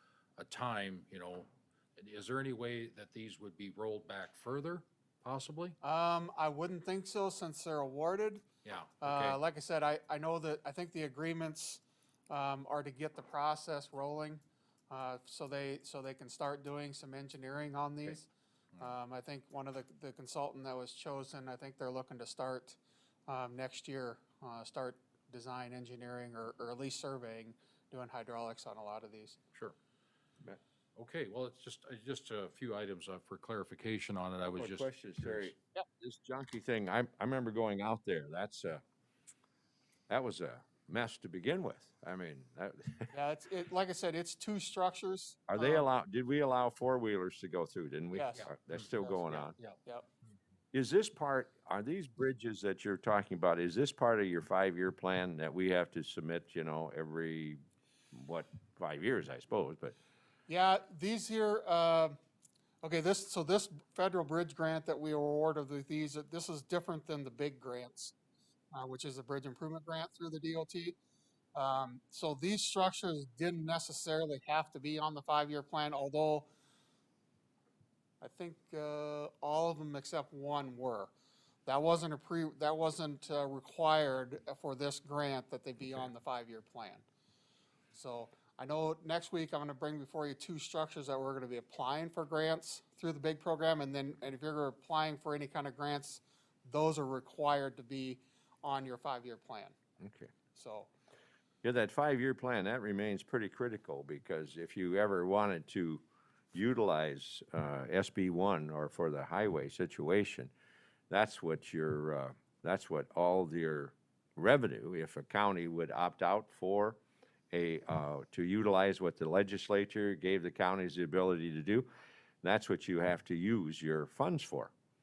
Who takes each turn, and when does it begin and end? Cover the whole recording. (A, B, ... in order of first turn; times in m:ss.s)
0:00.4-0:05.8 A
0:05.8-0:08.4 B
0:08.6-0:09.4 A
0:09.0-0:18.3 B
0:18.8-0:29.4 B
0:31.0-0:35.5 A
0:34.6-0:38.8 C
0:40.1-0:43.1 C
0:43.1-0:45.8 B
0:45.5-0:49.6 C
0:48.1-0:50.1 B
0:48.4-0:48.7 A
0:50.7-0:57.6 C
0:58.1-1:00.0 C
1:00.5-1:02.2 B
1:02.8-1:08.1 B
1:08.7-1:11.0 B
1:11.5-1:16.5 B
1:18.2-1:21.1 B
1:21.6-1:27.0 B
1:27.9-1:39.8 B
1:40.0-1:40.3 C
1:40.5-1:40.9 B
1:41.6-1:50.5 C
1:51.1-1:57.0 C
1:57.5-2:01.9 C
2:02.4-2:04.7 C